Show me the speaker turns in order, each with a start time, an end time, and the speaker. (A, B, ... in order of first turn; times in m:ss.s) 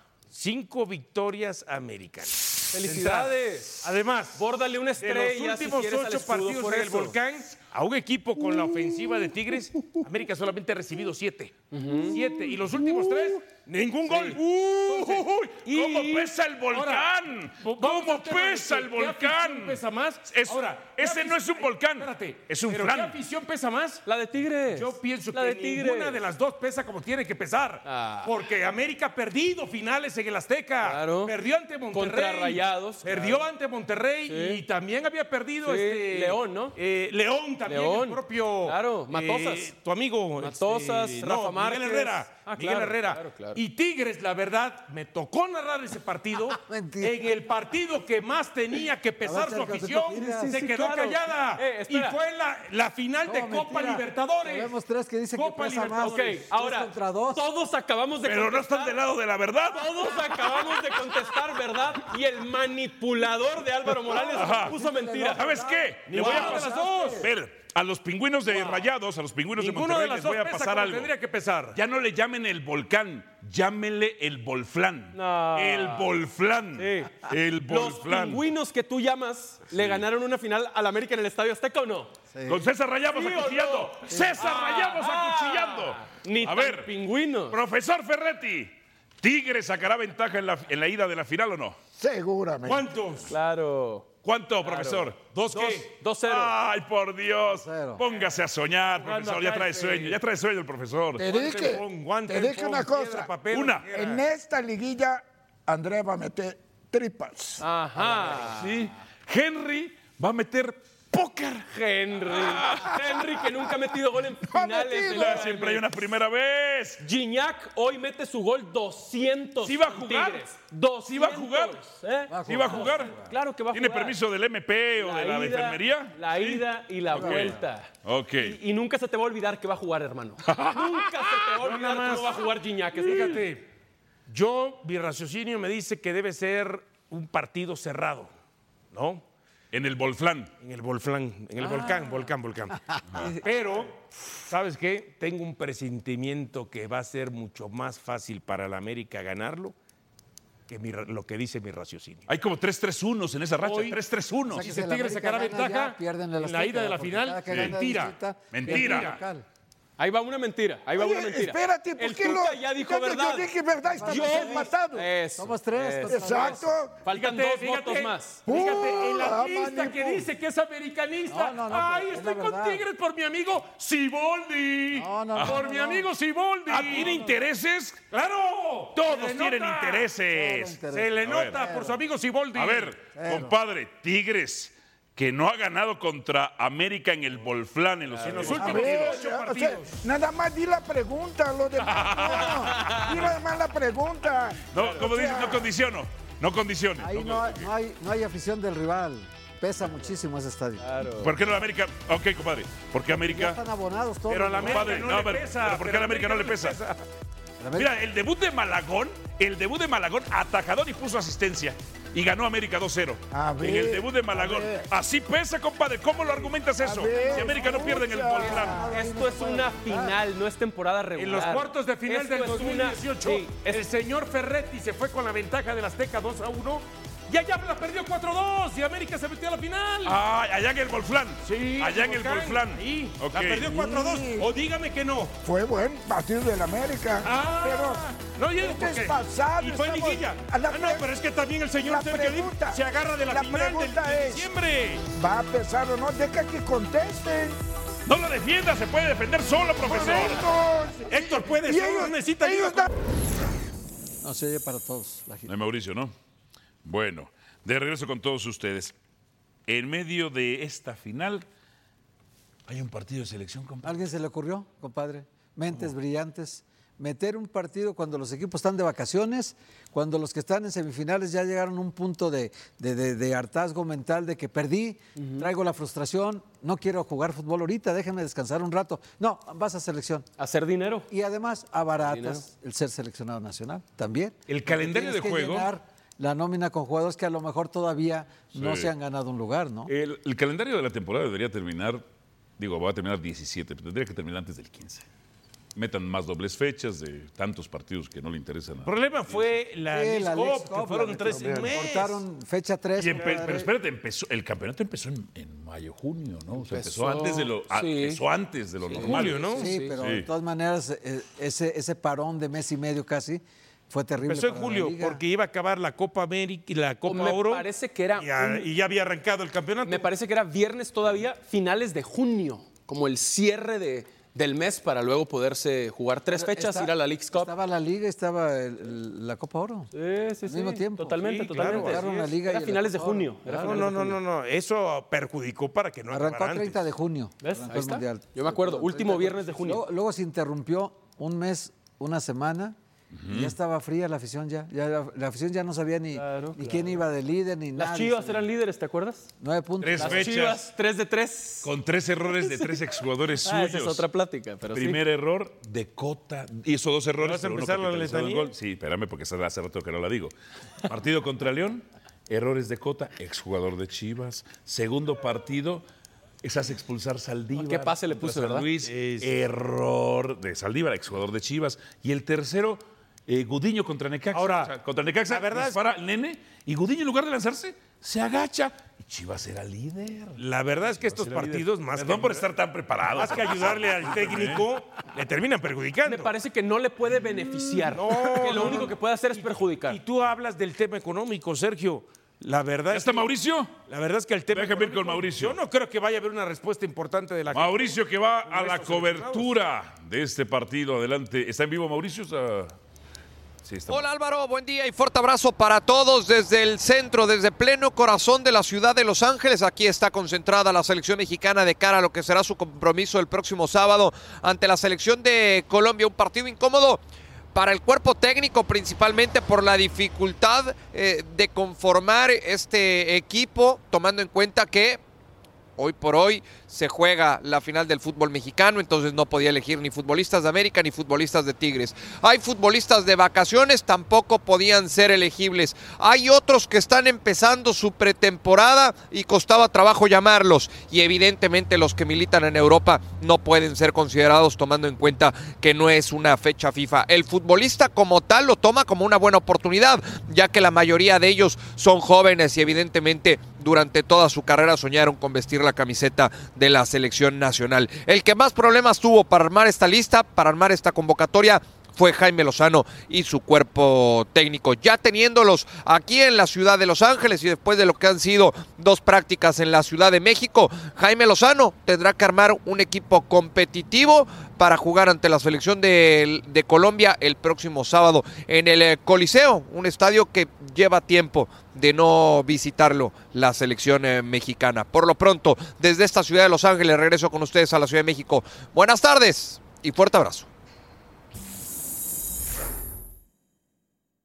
0:00.3-0:15.5 A
0:02.7-0:07.2 B
0:11.7-0:12.5 B
0:14.8-0:23.2 C
0:15.6-0:16.3 B
0:16.7-0:17.1 A
0:17.6-0:24.0 A
0:24.0-0:26.2 B
0:24.7-0:54.7 A
0:27.8-0:28.3 B
0:30.8-0:31.3 B
0:31.9-0:33.4 B
0:34.3-0:34.6 B
0:35.6-0:36.7 B
0:37.6-0:39.7 B
0:40.4-0:43.6 B
0:46.5-0:47.3 D
0:49.2-0:50.5 D
0:50.2-0:52.2 B
0:53.2-0:57.4 D
0:55.3-0:56.4 A
0:56.0-0:59.0 B
0:58.2-1:00.7 C
0:59.6-1:05.4 B
1:04.1-1:04.4 A
1:04.3-1:04.8 C
1:04.4-1:07.3 D
1:05.3-1:11.1 C
1:06.1-1:07.3 A
1:08.5-1:08.8 A
1:09.5-1:11.8 A
1:11.7-1:18.4 C
1:15.1-1:16.1 B
1:16.7-1:17.1 B
1:17.7-1:22.1 B
1:19.7-1:20.0 C
1:22.3-1:22.6 D
1:22.5-1:26.9 C
1:23.1-1:27.6 B
1:27.5-1:31.8 C
1:32.0-1:32.9 E
1:32.6-1:33.3 A
1:33.3-1:34.1 B
1:34.2-1:41.2 C
1:34.6-1:36.5 B
1:35.2-1:36.0 A
1:37.4-1:38.0 D
1:39.0-1:40.2 A
1:41.2-1:43.3 E
1:41.2-1:44.2 A
1:43.5-1:43.8 C
1:43.9-1:47.6 E
1:47.6-1:48.7 B
1:48.4-1:51.6 C
1:51.6-1:56.0 B
1:52.3-1:53.2 C
1:54.5-1:55.5 E
1:55.1-1:57.0 C
1:57.0-2:04.2 B
1:59.6-2:00.5 C
2:01.1-2:01.9 C
2:02.3-2:03.3 D
2:02.4-2:03.1 C
2:03.7-2:06.6 C
2:05.0-2:13.4 B
2:07.1-2:07.6 D
2:07.1-2:08.6 C
2:10.4-2:11.5 C
2:11.6-2:13.6 A
2:14.3-2:18.3 A
2:18.9-2:19.2 A
2:19.7-2:20.5 C
2:20.6-2:29.8 A
2:21.6-2:22.3 B
2:30.7-2:32.3 A
2:32.3-2:34.7 C
2:33.6-2:34.0 A
2:34.5-2:38.1 A
2:34.5-2:39.4 D
2:37.5-2:37.8 C
2:38.5-2:39.2 C
2:38.6-2:39.2 A
2:40.0-2:43.5 B
2:41.0-2:45.1 E
2:43.9-2:44.7 D
2:44.0-2:46.5 B
2:45.4-2:46.7 D
2:46.1-2:47.0 E
2:47.0-2:48.4 B
2:47.1-2:57.2 A
2:48.5-2:50.3 E
2:51.3-2:52.8 D
2:54.9-2:56.1 D
2:55.4-2:55.6 C
2:56.7-2:58.0 C
2:57.0-2:57.3 D
2:58.1-3:00.1 A
2:58.9-3:01.6 C
3:00.3-3:02.0 D
3:00.9-3:02.9 A
3:02.5-3:09.2 C
3:03.1-3:03.5 D
3:08.2-3:08.5 B
3:08.2-3:10.0 A
3:08.6-3:15.7 E
3:11.8-3:13.2 C
3:12.8-3:13.0 B
3:14.7-3:17.7 C
3:17.0-3:20.8 D
3:20.8-3:21.3 B
3:21.2-3:23.6 C
3:23.1-3:25.2 D
3:24.3-3:27.0 A
3:24.6-3:26.8 C
3:27.6-3:27.9 D
3:27.8-3:38.8 C
3:33.3-3:34.9 E
3:36.8-3:38.9 E
3:36.9-3:40.2 D
3:38.9-3:43.8 B
3:41.2-3:50.2 A
3:50.0-3:53.8 C
3:51.4-3:55.3 A
3:53.7-3:54.5 E
3:55.4-4:01.1 E
3:57.2-4:05.0 A
4:01.8-4:04.5 E
4:05.1-4:07.6 E
4:08.0-4:10.4 C
4:09.8-4:12.9 E
4:11.0-4:12.9 A
4:14.2-4:15.5 D
4:15.5-4:16.1 C
4:16.8-4:18.9 C
4:19.7-4:21.4 C
4:22.7-4:24.0 C
4:23.8-4:40.3 D
4:35.2-4:35.5 B
4:40.4-4:41.1 B
4:41.1-4:49.9 D
4:42.0-4:42.4 B
4:44.5-4:45.7 C
4:48.6-4:48.9 C
4:49.9-4:52.0 C
4:52.6-4:55.0 C
4:55.7-4:59.6 C
4:58.8-5:02.2 A
4:59.9-5:03.7 D
5:03.0-5:10.2 C
5:06.6-5:08.2 B
5:08.9-5:09.8 B
5:09.0-5:09.6 A
5:09.5-5:15.2 D
5:14.2-5:20.1 A
5:17.0-5:18.7 B
5:19.8-5:27.5 B
5:26.3-5:29.9 D
5:29.9-5:34.2 B
5:30.4-5:34.2 D
5:31.2-5:32.2 A
5:33.5-5:36.8 A
5:36.1-5:42.8 D
5:37.4-5:39.8 B
5:43.1-5:43.5 C
5:43.3-5:48.5 D
5:46.1-5:47.0 B
5:47.8-5:49.3 B
5:49.4-5:50.3 D
5:49.8-5:50.6 C
5:50.0-5:51.7 B
5:51.6-5:54.0 C
5:52.2-5:52.9 B
5:53.4-5:55.0 B
5:54.7-6:00.3 C
5:57.2-5:58.5 A
6:00.8-6:05.8 C
6:06.4-6:24.7 C
6:07.5-6:08.7 B
6:08.8-6:09.4 A
6:14.3-6:14.7 A
6:15.2-6:15.8 A
6:20.4-6:22.5 A
6:23.1-6:26.3 A
6:26.0-6:30.0 B
6:27.9-6:33.3 A
6:32.9-6:33.7 C
6:33.9-6:39.5 A
6:34.5-6:35.6 C
6:37.5-6:42.8 C
6:43.6-6:44.0 C
6:43.9-6:57.0 F
6:57.5-7:05.0 F
7:05.8-8:10.5 F